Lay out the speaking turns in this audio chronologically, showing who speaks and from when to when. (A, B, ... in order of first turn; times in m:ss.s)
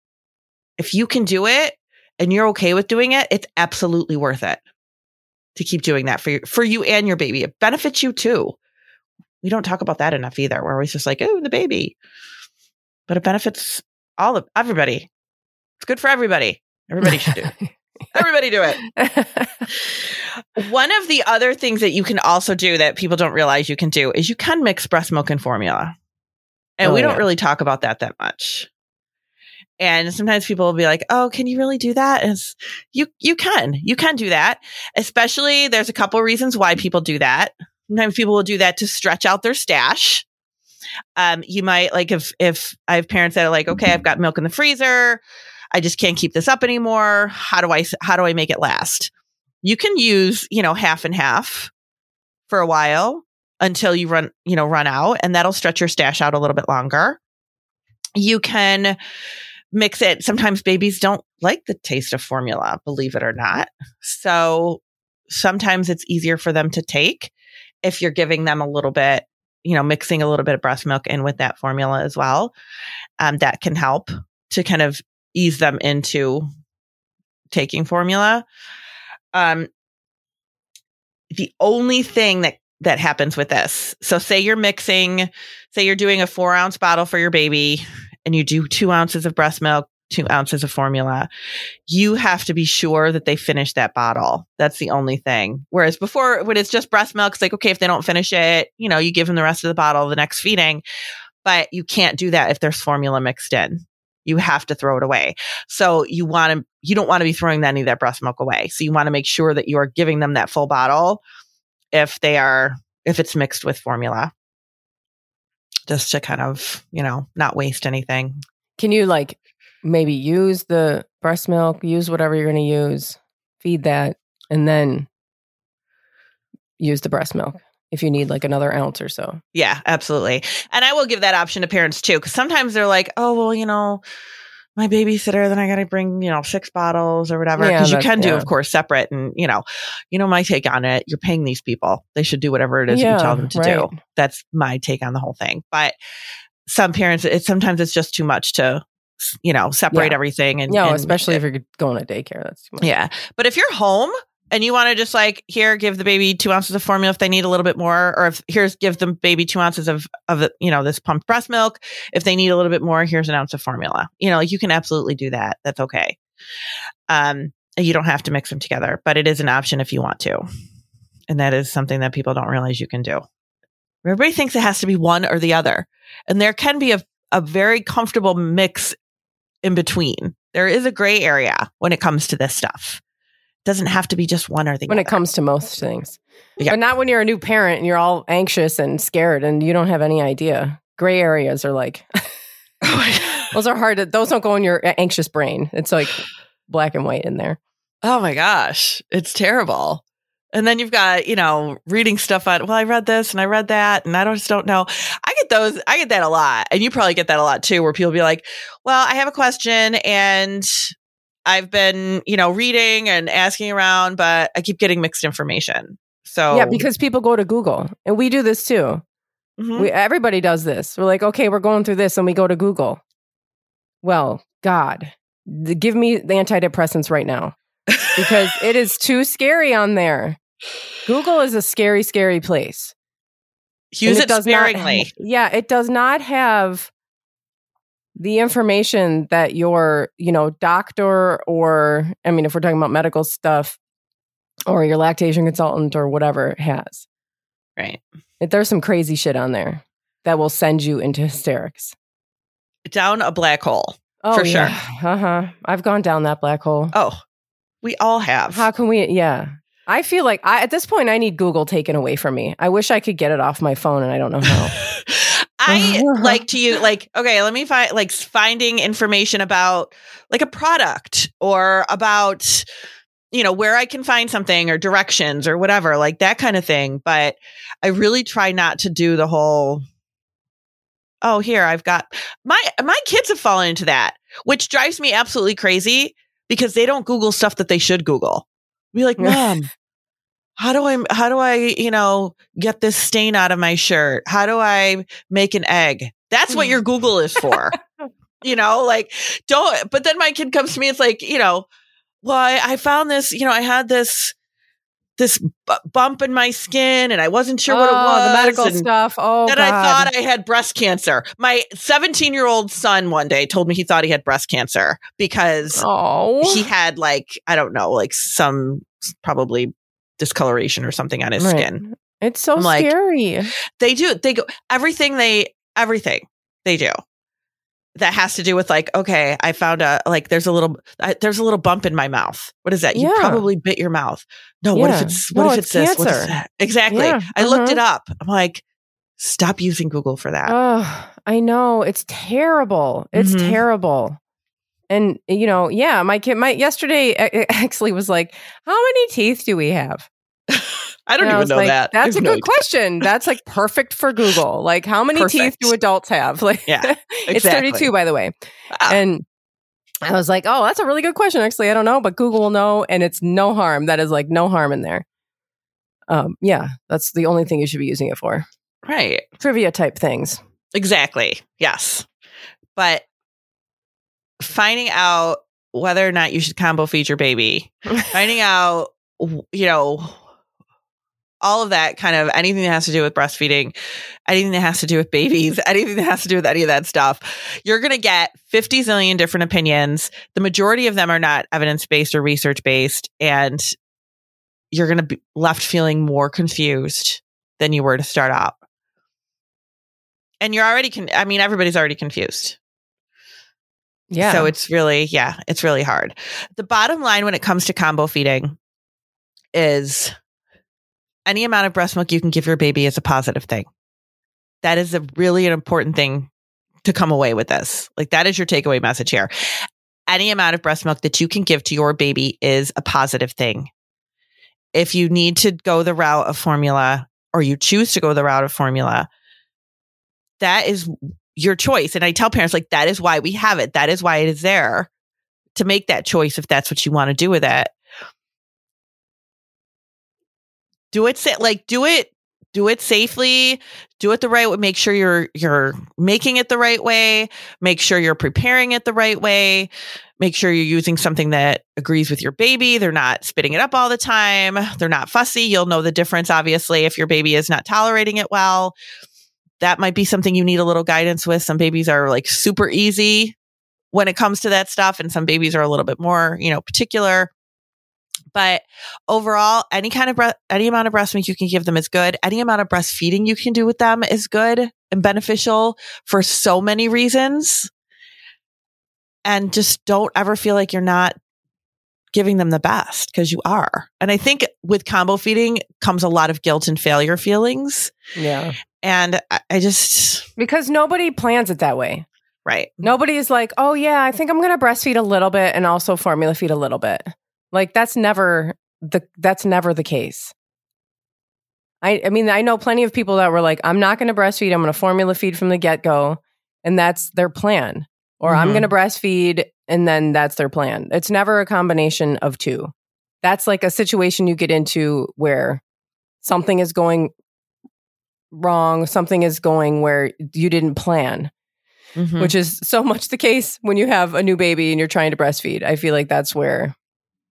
0:00.8-0:04.6 A
0:05.6-0:08.6 A
0:09.4-0:12.0 A
0:13.1-0:15.1 A
0:15.8-0:17.5 A
0:18.1-0:18.8 A
0:18.9-0:19.7 B
0:19.8-0:25.9 A
0:26.8-0:28.7 A
0:26.8-0:27.2 B
0:29.8-0:40.2 A
0:41.2-0:45.2 A
0:45.7-0:49.1 A
0:49.6-0:51.7 A
0:52.5-0:57.2 A
0:58.2-0:59.0 A
0:59.7-1:07.3 A
1:07.8-1:12.5 A
1:13.2-1:16.5 A
1:17.5-1:18.4 A
1:19.3-1:19.7 A
1:21.3-1:31.3 A
1:31.9-1:40.8 A
1:41.4-1:51.2 A
1:51.9-1:54.3 A
1:55.9-1:58.4 A
1:58.8-2:05.1 B
2:06.8-2:09.4 B
2:09.5-2:14.0 A
2:14.8-2:25.9 A
2:17.6-2:18.5 B
2:22.9-2:24.0 B
2:26.6-2:31.4 A
2:29.9-2:30.2 B
2:30.7-2:32.9 B
2:32.8-2:46.2 A
2:47.1-2:50.4 A
2:51.3-2:53.2 A
2:54.0-2:59.0 A
2:59.6-3:03.0 A
3:03.6-3:05.2 A
3:04.9-3:12.1 B
3:12.8-3:13.5 A
3:13.5-3:17.6 B
3:18.0-3:20.0 A
3:20.5-3:30.9 A
3:31.5-3:36.8 A
3:36.5-3:39.0 B
3:39.6-3:39.9 A
3:39.8-3:43.0 B
3:44.0-3:47.5 B
3:47.9-3:48.4 A
3:48.1-3:50.4 B
3:51.0-3:52.9 B
3:53.9-3:55.1 A
3:54.0-3:56.9 B
3:58.2-4:03.8 B
4:04.7-4:07.0 B
4:08.4-4:11.9 B
4:12.9-4:14.7 A
4:14.2-4:16.9 B
4:16.9-4:17.2 A
4:17.8-4:18.6 A
4:18.5-4:24.7 B
4:24.7-4:32.6 A
4:25.7-4:26.4 B
4:33.3-4:39.8 A
4:41.2-4:49.7 A
4:49.2-4:49.5 B
4:50.6-4:57.8 A
4:58.4-5:01.7 A
5:02.2-5:04.3 A
5:05.2-5:08.9 A
5:07.7-5:10.1 B
5:09.5-5:15.8 A
5:15.7-5:16.7 B
5:16.4-5:21.8 A
5:21.4-5:23.5 B
5:22.6-5:22.9 A
5:23.8-5:26.9 A
5:28.0-5:38.6 A
5:32.9-5:33.4 B
5:34.7-5:36.4 B
5:36.9-5:37.8 B
5:39.2-5:40.5 A
5:40.4-5:44.2 B
5:43.1-5:43.6 A
5:44.9-5:50.1 B
5:50.5-5:52.6 A
5:51.2-5:58.3 B
5:55.1-5:55.7 A
5:56.7-5:57.9 A
5:58.7-5:59.0 A
5:58.9-5:59.2 B
6:00.0-6:05.0 B
6:06.1-6:08.5 B
6:08.8-6:09.2 A
6:09.4-6:10.4 B
6:10.7-6:12.1 A
6:12.8-6:13.0 A
6:14.4-6:20.2 A
6:21.4-6:23.7 A
6:24.3-6:33.7 A
6:34.7-6:38.6 A
6:40.4-6:42.6 A
6:44.1-6:44.5 B
6:44.2-6:48.6 A
6:49.5-6:50.1 A
6:51.2-6:53.7 A
6:54.6-6:56.3 A
6:56.8-6:59.3 A
7:00.1-7:03.7 A
7:04.7-7:09.1 A
7:10.4-7:14.9 A
7:15.5-7:17.7 A
7:20.9-7:29.7 A
7:30.2-7:38.8 A
7:39.6-7:43.4 A
7:43.9-7:47.3 A
7:48.3-7:57.7 A
7:59.2-8:01.2 A
8:02.1-8:07.9 A
8:08.2-8:08.6 B
8:08.8-8:10.2 A
8:10.4-8:12.0 B
8:12.4-8:12.8 A
8:12.8-8:20.3 B
8:21.8-8:35.6 B
8:28.3-8:28.7 A
8:36.2-8:37.1 B
8:38.3-8:41.3 B
8:42.0-8:42.3 A
8:42.2-8:46.7 B